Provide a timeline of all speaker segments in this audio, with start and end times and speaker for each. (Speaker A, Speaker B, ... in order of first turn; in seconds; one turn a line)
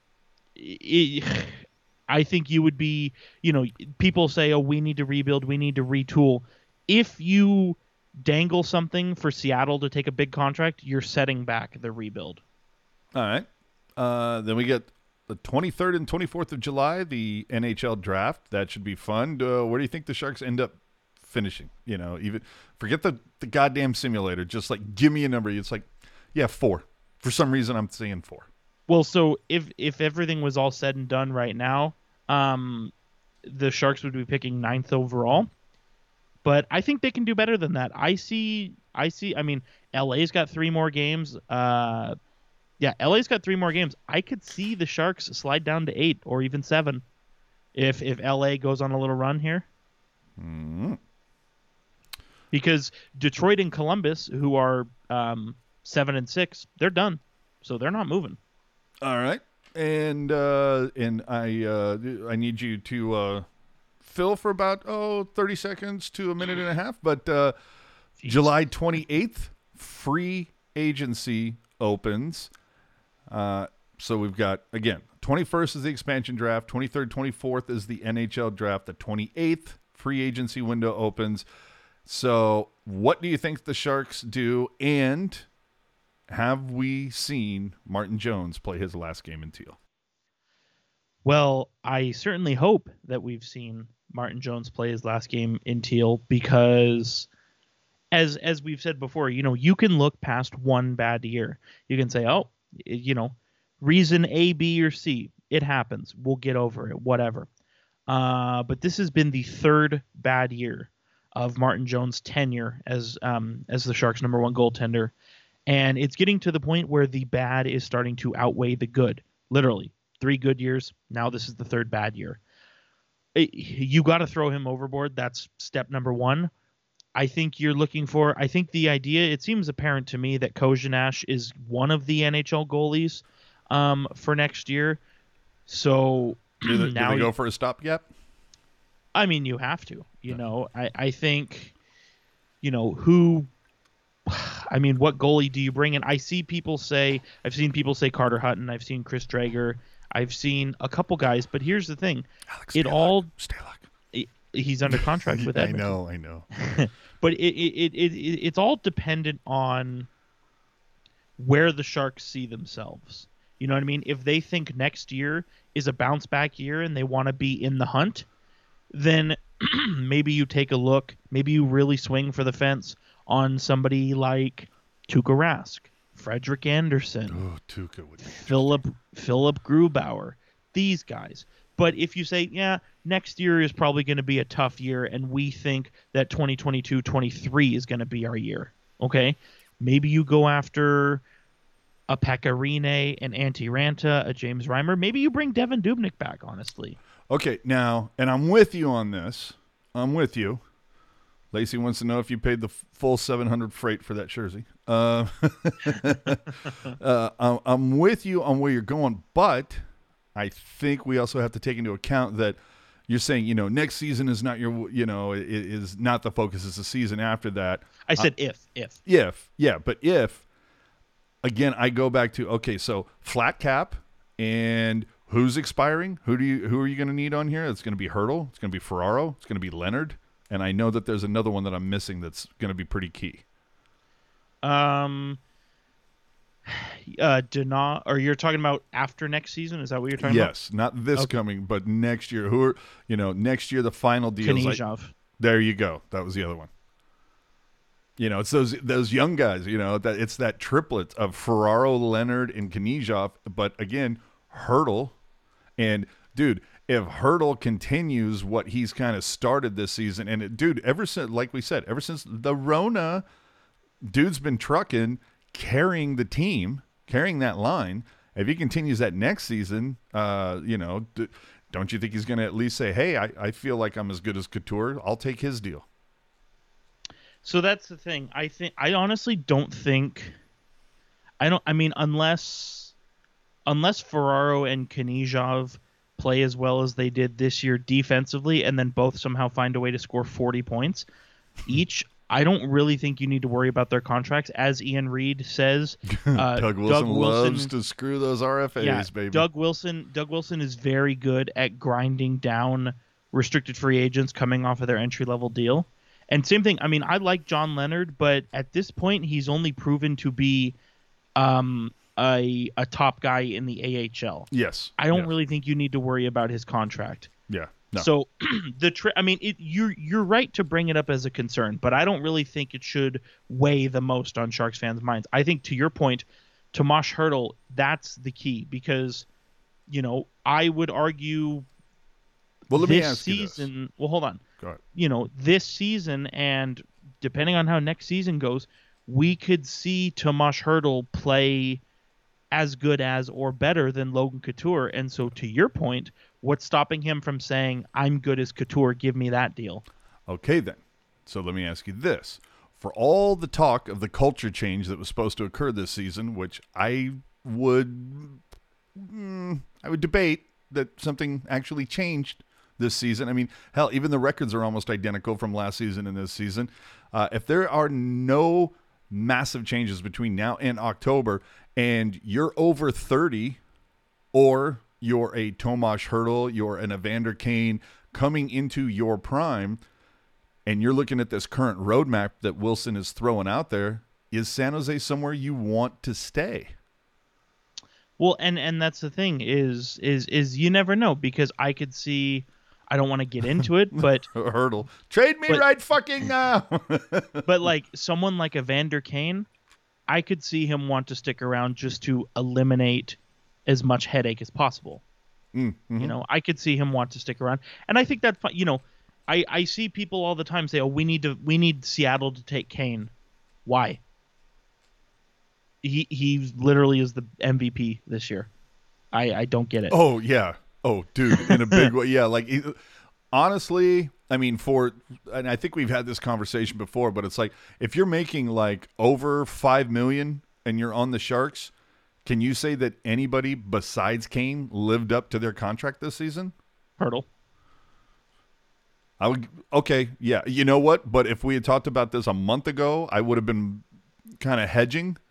Speaker A: 0.6-12.4
Speaker B: 13.1-28.5
Speaker A: 28.9-32.9
Speaker A: 33.4-35.5
Speaker A: 36.4-42.1
Speaker A: 42.8-47.0
Speaker A: 47.7-49.6
Speaker B: 50.4-51.0
Speaker A: 52.5-58.4
Speaker B: 59.0-63.5
Speaker B: 64.0-67.5
Speaker A: 68.2-68.4
Speaker B: 68.2-72.5
Speaker B: 73.3-81.4
Speaker B: 82.0-85.5
Speaker B: 86.3-89.8
Speaker A: 91.2-97.3
Speaker A: 98.1-107.5
Speaker A: 108.1-115.1
Speaker A: 115.7-122.4
Speaker A: 123.3-126.5
Speaker A: 127.2-135.0
Speaker A: 135.7-137.3
Speaker B: 136.6-138.1
Speaker A: 139.1-141.7
Speaker A: 142.6-143.5
Speaker A: 144.3-153.3
Speaker B: 152.5-153.9
Speaker A: 154.1-156.0
Speaker B: 154.9-156.5
Speaker A: 156.5-160.1
Speaker A: 161.4-168.2
Speaker A: 168.9-177.4
Speaker B: 177.3-178.8
Speaker A: 178.3-191.2
Speaker A: 192.1-197.0
Speaker B: 197.3-200.6
Speaker B: 201.5-209.8
Speaker B: 210.3-218.3
Speaker A: 218.1-218.9
Speaker B: 219.0-220.4
Speaker B: 221.4-233.4
Speaker A: 234.6-235.4
Speaker A: 236.7-240.5
Speaker B: 240.2-244.8
Speaker A: 244.4-245.1
Speaker B: 245.4-246.7
Speaker B: 248.2-255.1
Speaker B: 255.8-263.2
Speaker B: 264.0-275.8
Speaker A: 277.4-280.4
Speaker A: 281.4-282.9
Speaker A: 283.6-291.1
Speaker A: 291.7-297.7
Speaker B: 296.1-299.4
Speaker A: 298.8-310.8
Speaker A: 311.4-317.3
Speaker B: 314.5-315.3
Speaker B: 317.5-318.1
Speaker A: 318.0-329.2
Speaker A: 329.9-331.6
Speaker B: 332.7-333.7
Speaker A: 332.7-334.4
Speaker A: 334.9-341.8
Speaker A: 342.5-349.8
Speaker B: 350.3-358.4
Speaker B: 358.9-373.6
Speaker B: 374.3-379.8
Speaker B: 380.6-386.7
Speaker A: 388.2-394.3
Speaker B: 393.5-397.5
Speaker A: 397.4-399.5
Speaker A: 400.1-405.0
Speaker B: 405.5-406.1
Speaker A: 406.0-413.1
Speaker A: 413.6-414.0
Speaker A: 415.8-418.5
Speaker A: 419.1-419.9
Speaker B: 419.9-422.8
Speaker A: 421.4-421.9
Speaker B: 423.3-431.7
Speaker B: 432.2-436.5
Speaker A: 437.0-437.2
Speaker B: 439.2-443.8
Speaker B: 444.4-445.2